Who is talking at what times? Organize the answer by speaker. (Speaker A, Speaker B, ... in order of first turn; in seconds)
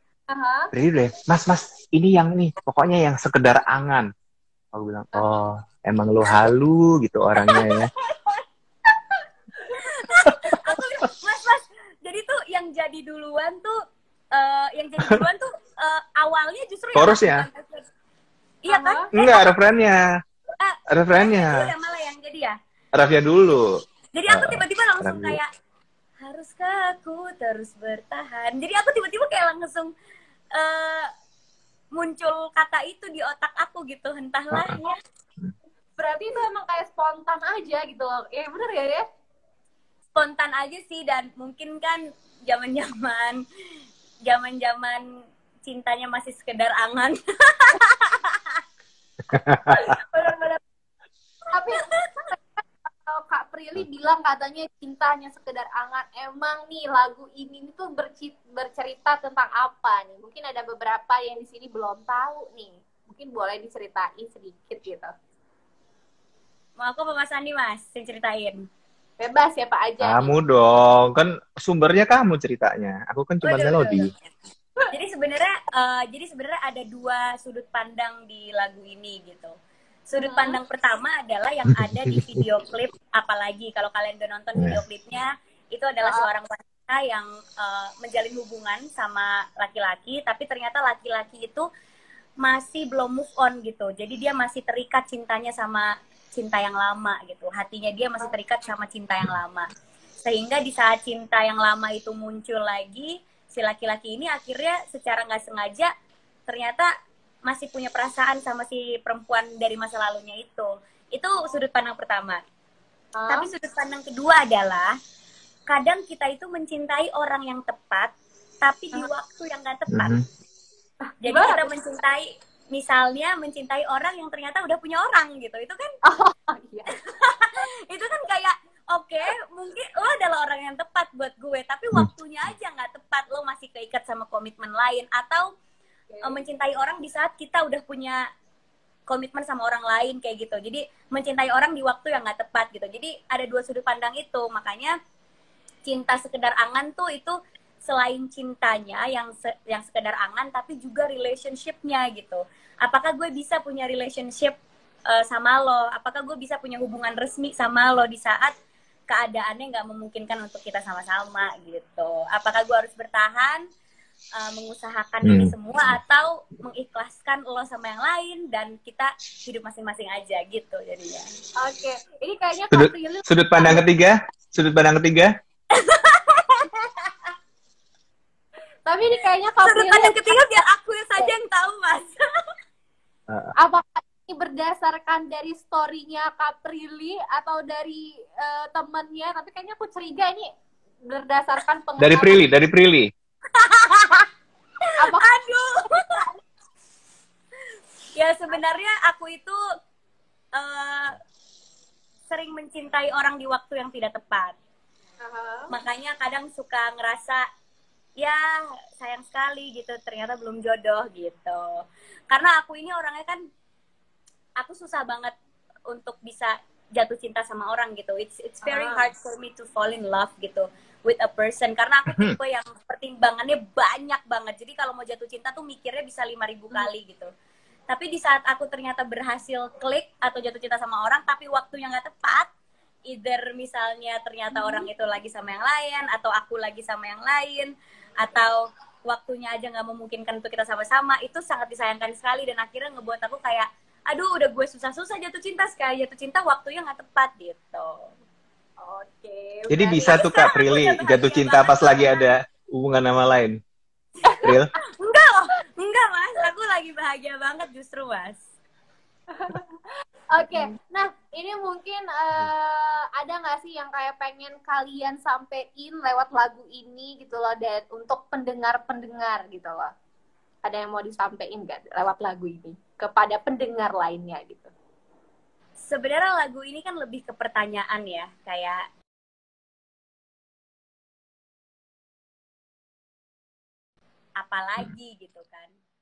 Speaker A: 0.3-0.7, 5.1-5.4, 7.4-8.4, 18.7-19.1, 36.0-39.0, 49.5-50.6, 51.5-65.1, 69.2-70.3, 80.2-80.6, 86.0-86.3, 113.1-113.5, 121.1-121.7, 126.0-126.9, 136.1-136.5, 171.6-173.8, 178.8-180.6, 183.6-190.5, 191.0-192.5, 195.0-195.2, 195.8-196.3, 205.2-205.7, 218.6-219.1, 234.5-234.9, 248.8-250.3, 254.2-254.5, 259.3-259.8, 260.3-269.9, 270.6-274.7
Speaker B: 0.7-4.1, 4.7-7.9, 16.9-17.5, 19.1-20.0, 20.9-21.7, 22.9-23.6, 24.3-25.4, 49.5-49.7, 70.0-74.1, 81.8-82.4, 84.5-84.8, 119.9-120.2, 165.2-166.0, 172.7-175.3, 192.0-193.1, 222.1-222.4, 249.7-253.6, 254.4-254.7
Speaker C: 9.7-13.7, 14.3-17.8, 18.6-19.5, 20.6-22.5, 24.1-25.5, 26.2-29.9, 30.6-31.1, 31.9-35.0, 40.1-43.4, 44.2-45.0, 45.6-48.6, 51.8-52.3, 66.8-68.6, 73.4-74.1, 74.9-79.5, 80.1-91.6, 92.4-99.7, 100.2-105.9, 106.5-106.9, 107.5-112.4, 113.3-114.9, 115.7-120.2, 121.2-125.9, 127.1-135.5, 136.2-138.2, 139.1-144.9, 145.8-154.6, 155.1-158.5, 159.1-163.6, 164.4-171.2, 175.7-177.3, 179.6-182.1, 193.5-194.2, 194.8-196.2, 198.1-199.6, 200.6-201.2, 202.3-204.5, 205.7-207.4, 208.9-211.8, 212.3-213.4, 214.6-215.3, 215.9-227.3, 227.9-232.5, 233.1-248.1, 250.0-252.3, 255.0-258.4, 275.8-278.8, 284.4-285.7